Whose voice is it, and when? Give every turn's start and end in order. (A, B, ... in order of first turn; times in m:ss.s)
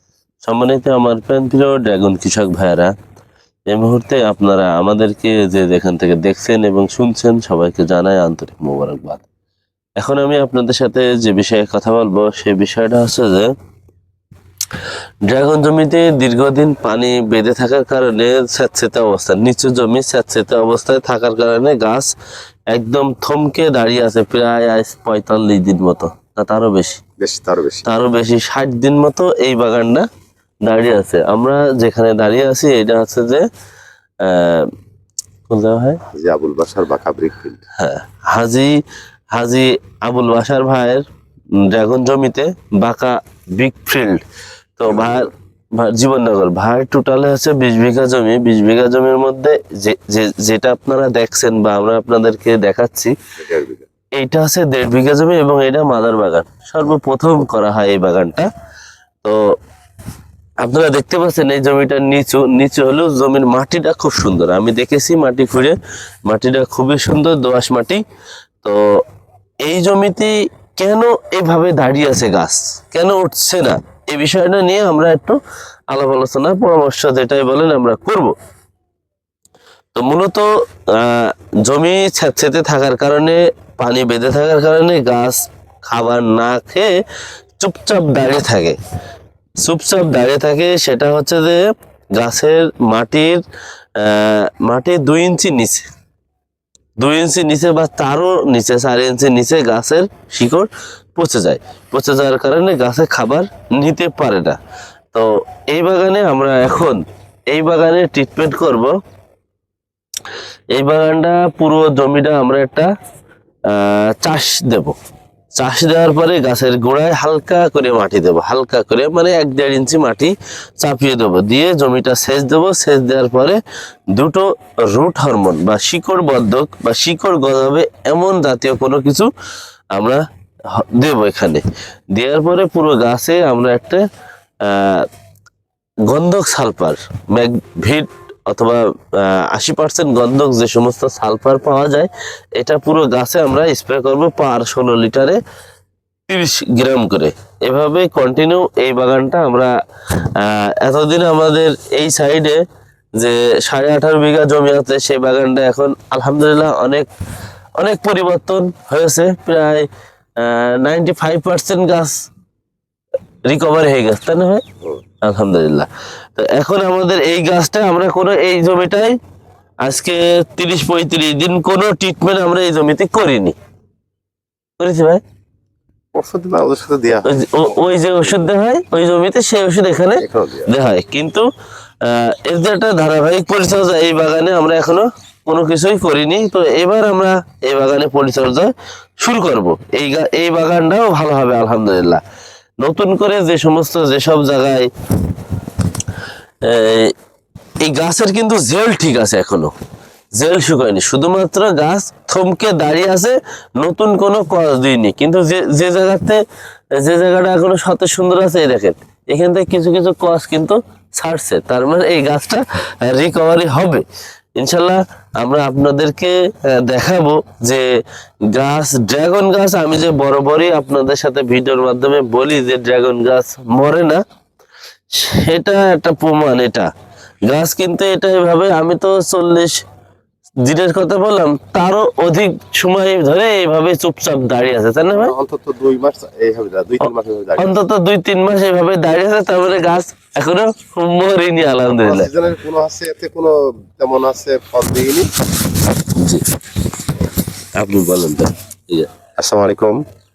0:00.4-0:02.9 A
0:03.7-0:09.2 A
0:10.0-0:13.5 A
0:15.3-0:22.1 A
0:22.7-0:27.0 A
0:27.2-0:27.9 B
0:27.8-0:30.0 A
0:30.6-0:33.4 A
0:34.2-0:34.7 A
0:35.5-0:36.0 A
0:36.1-0:37.6 B
0:37.8-0:38.8 A
0:39.3-0:41.0 A
0:41.6-0:44.2 A
0:44.8-0:53.1 A
0:44.8-0:45.2 B
0:53.4-0:53.8 B
0:54.2-0:58.5 A
0:59.2-0:59.6 A
1:00.6-1:08.0 A
1:08.6-1:09.0 A
1:09.6-1:15.4 A
1:15.9-1:18.3 A
1:19.9-1:26.9 A
1:27.6-1:28.8 A
1:29.6-1:31.6 A
1:32.2-1:33.4 A
1:34.0-1:35.9 A
1:37.0-1:44.6 A
1:45.1-1:49.0 A
1:50.7-1:52.9 A
1:53.7-1:55.0 A
1:55.6-2:03.6 A
2:04.1-2:09.3 A
2:09.9-2:11.6 A
2:12.1-2:14.0 A
2:14.6-2:15.1 A
2:16.1-2:25.4 A
2:26.3-2:32.6 A
2:33.2-2:37.1 A
2:37.8-2:42.2 A
2:43.5-2:44.6 A
2:45.2-2:49.2 A
2:49.8-2:53.5 A
2:54.8-2:55.2 A
2:56.1-2:57.8 B
2:57.3-3:01.5 A
3:00.2-3:00.7 B
3:02.0-3:12.2 A
3:12.8-3:14.9 A
3:16.6-3:17.1 A
3:17.8-3:19.7 A
3:20.4-3:26.4 A
3:27.0-3:34.0 A
3:34.6-3:37.9 A
3:38.5-3:44.2 A
3:45.1-3:46.9 A
3:47.4-3:49.8 A
3:50.6-3:55.3 A
3:55.1-3:57.8 B
3:57.6-4:02.3 A
4:02.0-4:05.3 B
4:06.1-4:06.4 A
4:07.7-4:09.1 A
4:09.4-4:10.0 B